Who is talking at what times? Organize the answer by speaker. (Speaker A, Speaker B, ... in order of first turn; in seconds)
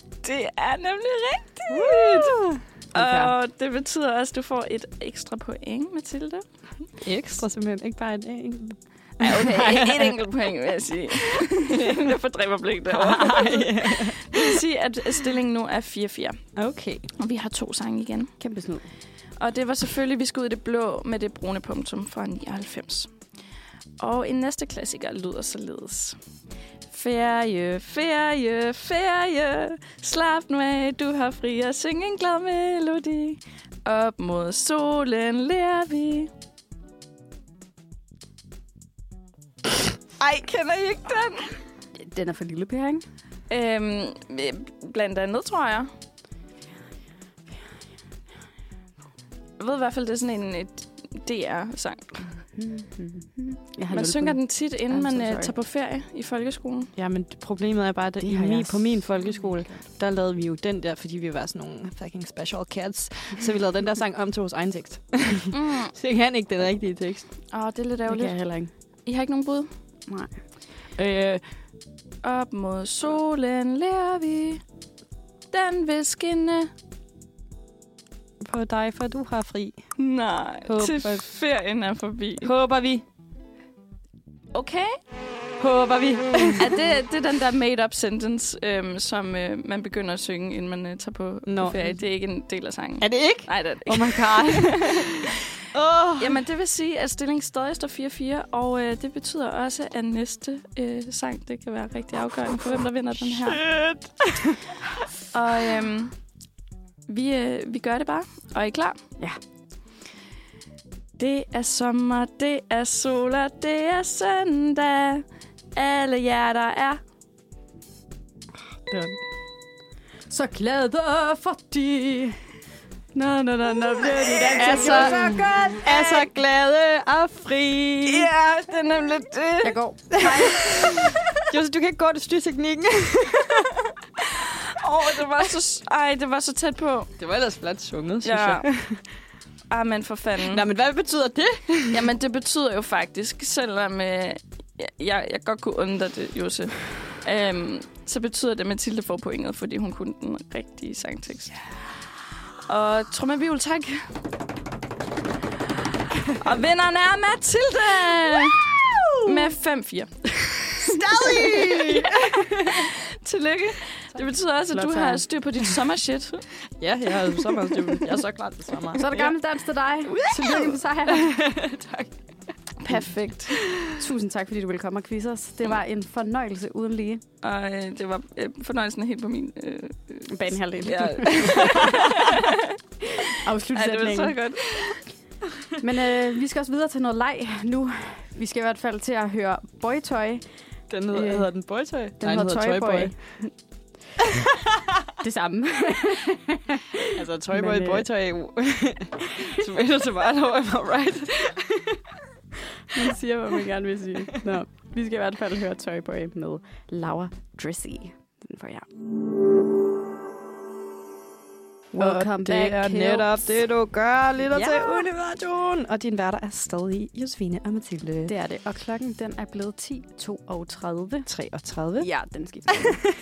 Speaker A: 0.2-6.9, 9.2-18.4, 19.3-23.4, 24.0-26.2, 26.9-36.3, 40.2-41.6, 43.5-45.9, 49.6-52.4, 53.9-56.9, 65.5-65.9, 67.5-69.8, 72.2-74.6, 75.5-76.7, 80.0-82.5, 84.5-85.1, 86.6-95.1, 96.2-104.2, 105.2-106.4, 107.0-109.1, 111.2-117.0, 124.6-126.2, 128.0-130.3, 134.8-137.2, 138.2-140.6, 141.9-154.2, 156.3-162.1, 162.7-166.7, 172.8-173.6, 177.4-182.1, 183.7-185.0
Speaker B: 1.7-2.5, 7.0-10.2, 12.9-14.3, 16.6-17.1, 57.0-67.5, 71.0-71.5, 78.4-81.3, 82.4-83.0, 85.6-86.6, 91.4-92.0, 93.0-95.0, 95.7-96.4, 103.2-104.5, 118.8-119.2, 124.5-128.3, 131.4-133.6, 137.2-139.1, 140.5-142.0, 160.8-162.8, 166.8-169.2, 171.3-172.1, 190.9-193.6, 197.2-202.1, 212.0-218.3, 221.2-222.1
Speaker C: 2.9-3.3, 18.4-18.9, 41.9-43.0, 52.5-55.5, 58.2-59.2, 68.1-68.7, 70.1-70.4, 120.3-122.4, 123.1-125.8, 129.6-130.9, 164.7-165.2, 169.0-171.3, 173.8-177.2, 180.3-181.9, 183.4-184.4, 185.8-193.7, 195.2-196.8, 197.5-198.1, 202.9-208.9, 211.9-213.7, 214.5-215.1, 218.3-221.3, 222.0-223.0